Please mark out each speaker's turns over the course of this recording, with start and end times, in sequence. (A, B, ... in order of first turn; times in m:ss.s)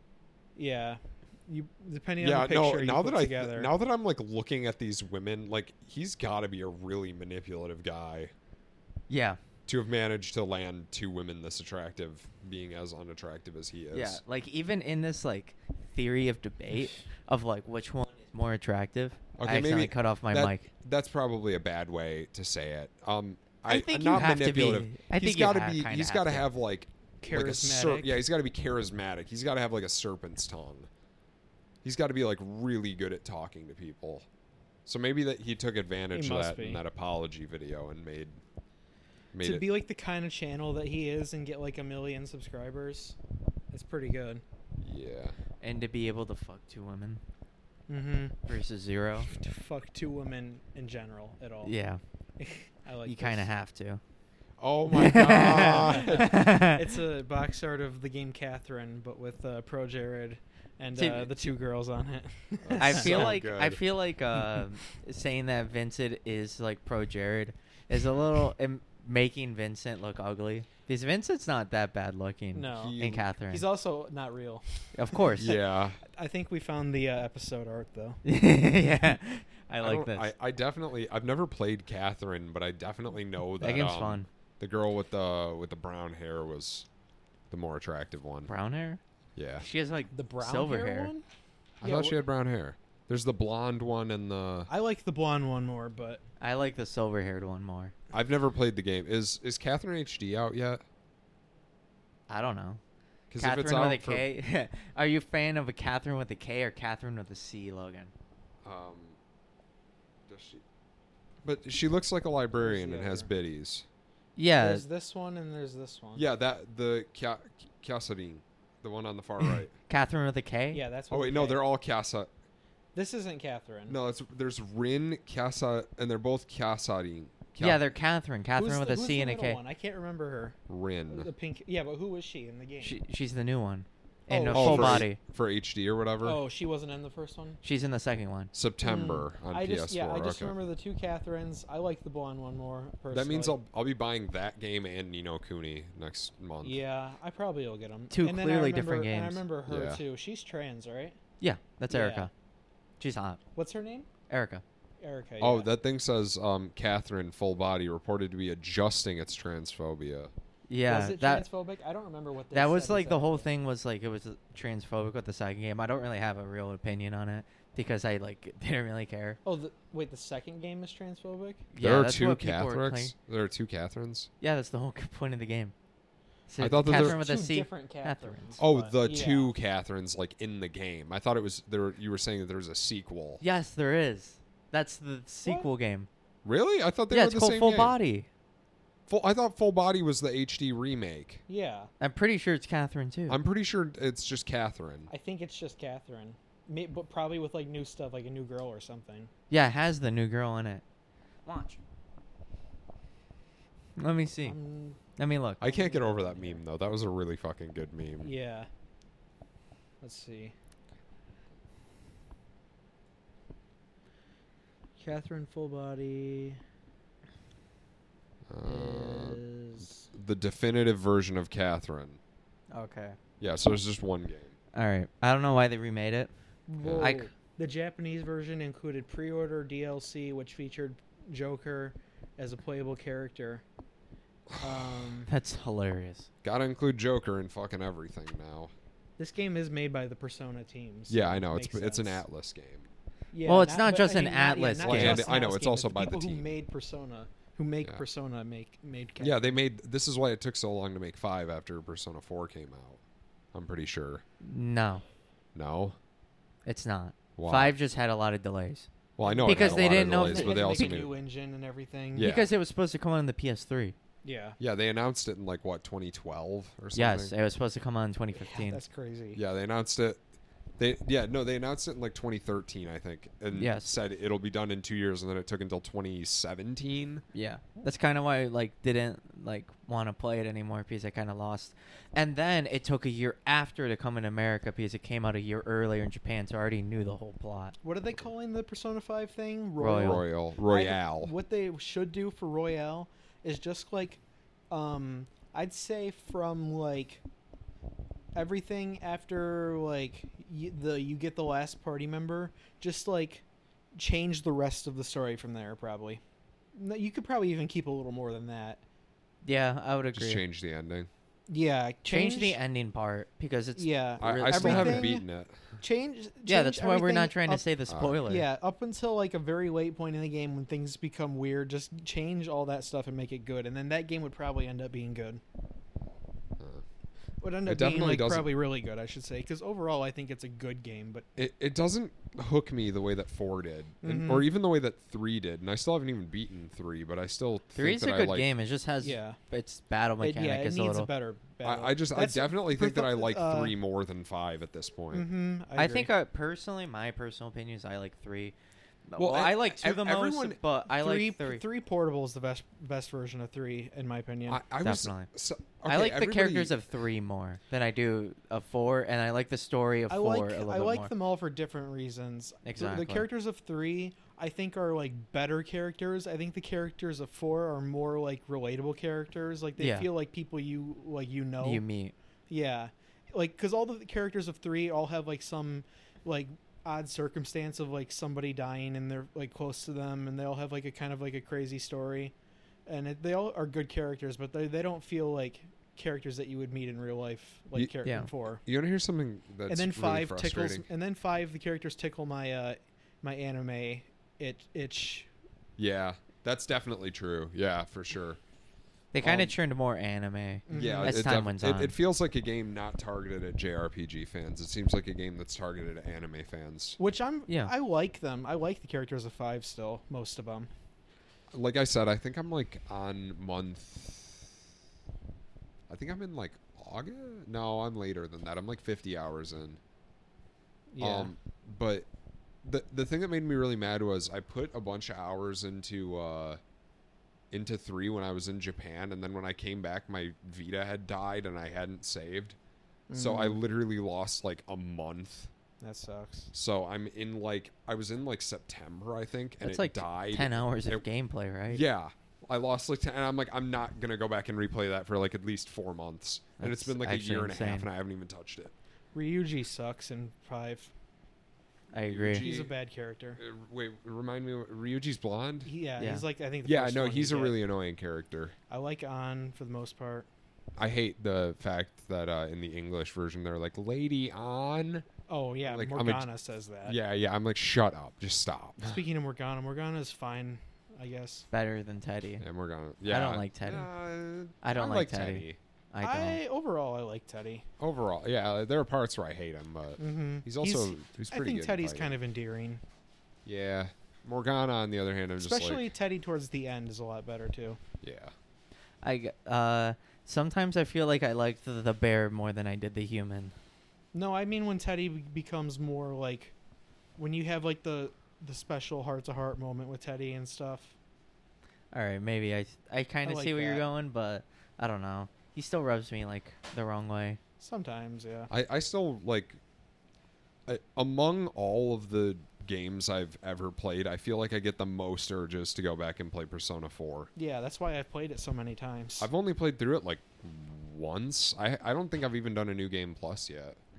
0:00.6-0:03.7 A
0:02.2-0:08.3 B
0:09.1-0:09.4 C
0:09.7-0:14.2 B
0:13.9-0:20.7 C
0:19.4-0:30.9 B
0:23.7-0:26.4 C
0:27.2-0:28.2 A
0:31.8-0:34.2 B
0:34.8-0:38.4 B
0:36.1-0:36.8 A
0:39.3-0:39.6 B
0:39.4-0:43.2 A
0:43.7-0:44.4 A
0:44.8-0:45.4 B
0:45.6-0:47.2 C
0:47.9-0:48.5 A
0:48.5-0:49.3 C
0:49.3-0:51.7 A
0:51.6-0:52.0 C
0:52.4-0:53.5 A
0:53.0-0:54.0 C
0:54.6-0:56.4 B
0:54.9-0:56.8 C
0:55.4-1:03.3 A
1:00.9-1:01.3 C
1:02.6-1:03.8 B
1:02.8-1:13.6 C
1:12.5-1:13.0 A
1:12.7-1:13.3 B
1:13.5-1:18.2 A
1:14.9-1:15.6 C
1:15.4-1:16.0 B
1:18.2-1:20.3 C
1:19.8-1:26.9 B
1:23.6-1:24.3 C
1:27.5-1:28.5 B
1:28.5-1:29.0 C
1:29.4-1:29.6 B
1:29.6-1:31.1 C
1:30.1-1:31.2 A
1:31.8-1:34.7 B
1:31.8-1:32.2 A
1:34.7-1:36.2 A
1:36.4-1:37.9 C
1:38.1-1:40.8 B
1:42.3-1:42.8 C
1:43.3-1:44.2 B
1:43.4-1:48.1 C
1:48.6-1:49.2 B
1:50.3-1:50.6 B
1:51.4-1:53.8 B
1:52.6-1:53.3 A
1:54.4-1:54.8 C
1:54.6-1:56.2 A
1:56.1-1:59.7 B
1:59.9-2:00.8 C
2:00.7-2:01.6 A
2:01.1-2:02.3 B
2:02.9-2:04.0 A
2:03.9-2:07.8 B
2:07.6-2:09.6 C
2:08.6-2:10.6 A
2:10.7-2:11.3 B
2:11.1-2:13.0 A
2:12.8-2:15.2 C
2:14.3-2:15.1 A
2:14.5-2:16.4 B
2:16.2-2:17.6 A
2:17.6-2:18.5 C
2:18.5-2:20.5 B
2:18.8-2:23.6 A
2:23.1-2:26.8 B
2:26.6-2:31.2 A
2:28.1-2:29.4 C
2:29.7-2:30.0 B
2:31.4-2:32.3 C
2:31.9-2:32.3 A
2:33.0-2:33.4 C
2:33.6-2:34.1 A
2:34.3-2:34.6 C
2:35.0-2:35.7 A
2:35.4-2:40.3 B
2:40.7-2:41.4 C
2:40.8-2:43.5 A
2:42.5-2:49.4 C
2:49.4-2:51.7 A
2:51.7-2:53.1 C
2:51.8-2:54.3 B
2:54.4-2:55.7 C
2:56.5-2:58.6 C
2:56.6-2:57.2 B
2:56.8-2:59.5 A
2:58.6-3:03.4 B
3:03.4-3:06.1 C
3:05.4-3:05.7 A
3:06.4-3:07.9 B
3:07.1-3:08.3 C
3:09.1-3:11.4 B
3:11.5-3:11.9 A
3:12.0-3:13.4 C
3:13.3-3:15.1 B
3:15.1-3:19.3 A
3:19.5-3:20.8 C
3:21.4-3:21.8 C
3:24.0-3:24.6 C
3:24.4-3:25.0 A
3:25.2-3:25.7 C
3:25.6-3:28.3 B
3:25.6-3:26.6 A
3:28.2-3:28.7 A
3:30.0-3:30.5 A
3:35.0-3:36.6 A
3:38.5-3:39.4 B
3:38.6-3:40.1 A
3:40.1-3:42.2 B
3:42.7-3:43.2 C
3:43.4-3:44.5 B
3:44.7-3:46.3 C
3:46.7-3:53.6 A
3:46.8-3:47.1 B
3:47.0-3:47.3 C
3:54.5-3:55.1 B
3:54.6-3:55.3 A
3:55.3-3:56.3 C
3:56.4-3:58.7 B
3:59.2-4:02.2 A
4:01.1-4:02.9 B
4:03.3-4:09.5 A
4:03.4-4:05.2 C
4:04.8-4:06.4 B
4:09.2-4:13.0 B
4:13.5-4:14.2 B
4:14.4-4:15.0 C
4:15.5-4:16.0 B
4:16.6-4:18.9 C
4:17.4-4:17.7 B
4:19.2-4:21.1 B
4:19.2-4:22.3 A
4:19.4-4:21.0 C
4:22.1-4:22.5 B
4:22.2-4:23.9 C
4:24.2-4:24.6 A
4:24.6-4:27.3 B
4:26.9-4:28.8 C
4:28.4-4:29.4 A
4:29.3-4:30.2 B
4:30.8-4:37.2 B
4:33.5-4:33.9 C
4:37.3-4:47.7 C
4:47.8-4:57.2 A
4:49.8-4:50.2 C
4:50.0-4:51.3 B
4:58.3-5:03.4 A
5:03.9-5:06.2 A
5:06.7-5:08.8 A
5:09.4-5:10.4 C
5:10.1-5:11.1 B
5:11.5-5:12.6 A
5:12.1-5:15.1 C
5:13.8-5:15.2 A
5:14.2-5:15.8 B
5:15.8-5:17.6 A
5:16.5-5:18.4 C
5:17.9-5:18.2 B
5:18.2-5:25.4 A
5:26.6-5:26.8 B
5:27.4-5:31.3 A
5:27.6-5:28.5 B
5:31.4-5:38.5 B
5:34.0-5:34.5 A
5:37.8-5:41.1 C
5:39.0-5:39.4 A
5:40.2-5:43.7 A
5:41.6-5:45.3 B
5:45.1-5:46.1 A
5:45.8-5:48.5 C
5:49.1-5:51.6 C
5:49.2-5:50.6 B
5:50.9-5:54.6 A
5:54.5-5:56.8 B
5:54.8-5:55.3 C
5:55.8-6:01.1 C
6:00.1-6:11.8 A
6:02.6-6:03.3 C
6:09.8-6:10.1 C
6:11.6-6:12.1 C
6:12.5-6:22.3 A
6:22.9-6:28.6 A
6:28.6-6:30.9 B
6:29.7-6:35.3 A
6:35.8-6:38.4 B
6:39.1-6:41.9 C
6:40.7-6:41.3 A
6:40.7-6:47.0 B
6:47.0-6:50.7 A
6:47.5-6:47.7 C
6:51.5-6:54.5 B
6:55.9-6:59.8 B
7:00.9-7:01.3 A
7:01.0-7:02.1 B
7:02.6-7:06.6 B
7:07.5-7:12.6 B
7:13.1-7:13.6 A
7:13.1-7:15.5 B
7:15.8-7:16.5 A
7:16.5-7:21.0 B
7:19.6-7:21.8 C
7:21.7-7:28.7 B
7:26.6-7:27.9 C
7:29.1-7:30.9 A
7:31.9-7:32.5 C
7:32.0-7:32.7 B
7:32.4-7:33.4 A
7:33.4-7:35.7 B
7:35.6-7:37.6 A
7:36.0-7:36.2 C
7:36.6-7:38.5 B
7:38.7-7:40.3 A
7:40.8-7:45.1 B
7:45.3-7:47.0 A
7:45.6-7:46.2 B
7:46.8-7:49.0 B
7:48.8-7:51.4 A
7:51.5-7:52.4 C
7:52.4-7:55.6 B
7:53.1-7:53.9 C
7:54.6-7:56.4 C
7:56.0-7:57.6 A
7:57.8-8:02.2 B
8:00.0-8:02.8 A
8:03.4-8:05.8 B
8:05.4-8:07.8 A
8:08.0-8:08.3 B
8:09.0-8:13.5 C
8:14.1-8:16.5 A
8:17.2-8:20.9 A
8:21.9-8:27.4 C
8:23.2-8:23.8 A
8:27.6-8:28.5 A
8:28.5-8:29.6 B
8:30.7-8:37.3 B
8:37.3-8:39.3 A
8:39.2-8:43.8 B